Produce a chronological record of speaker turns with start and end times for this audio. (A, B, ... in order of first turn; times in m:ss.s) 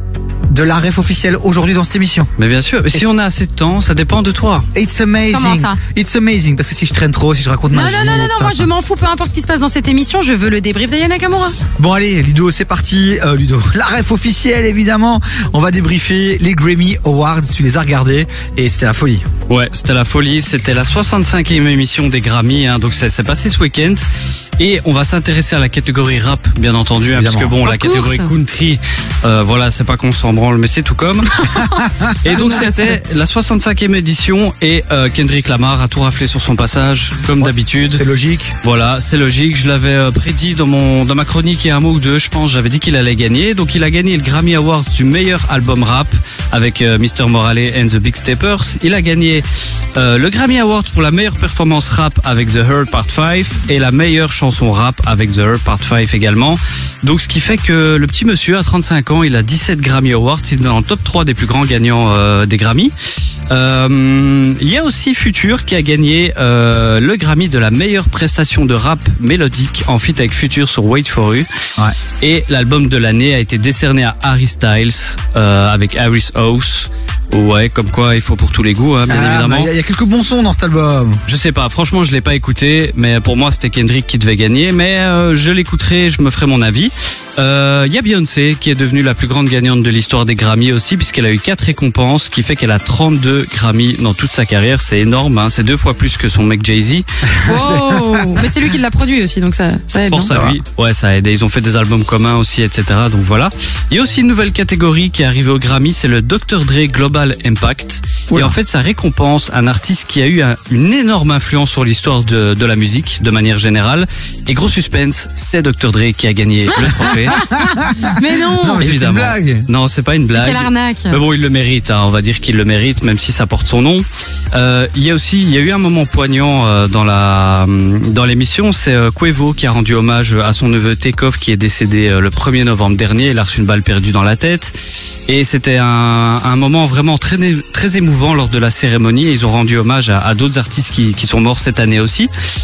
0:00.5-0:02.3 A
0:02.4-0:04.7 B
0:02.9-0:03.2 A
0:04.7-0:08.7 A
0:05.3-0:05.8 C
0:07.7-0:11.6 C
0:11.8-0:19.2 A
0:19.5-0:24.1 B
0:24.6-0:31.5 B
0:27.1-0:27.5 A
0:27.6-0:28.3 C
0:31.5-0:32.9 A
0:32.2-0:38.0 B
0:37.4-0:38.5 A
0:38.6-0:49.4 B
0:50.0-1:02.9 B
1:03.5-1:11.4 B
1:12.2-1:19.7 B
1:19.1-1:21.2 A
1:21.2-1:37.0 B
1:37.2-1:38.5 A
1:37.4-1:40.3 C
1:40.0-1:57.4 B
1:40.3-1:40.6 A
1:48.3-1:48.6 A
1:56.7-1:58.8 C
1:57.1-1:59.7 A
1:58.7-2:14.7 B
2:00.3-2:01.2 C
2:15.3-2:22.3 B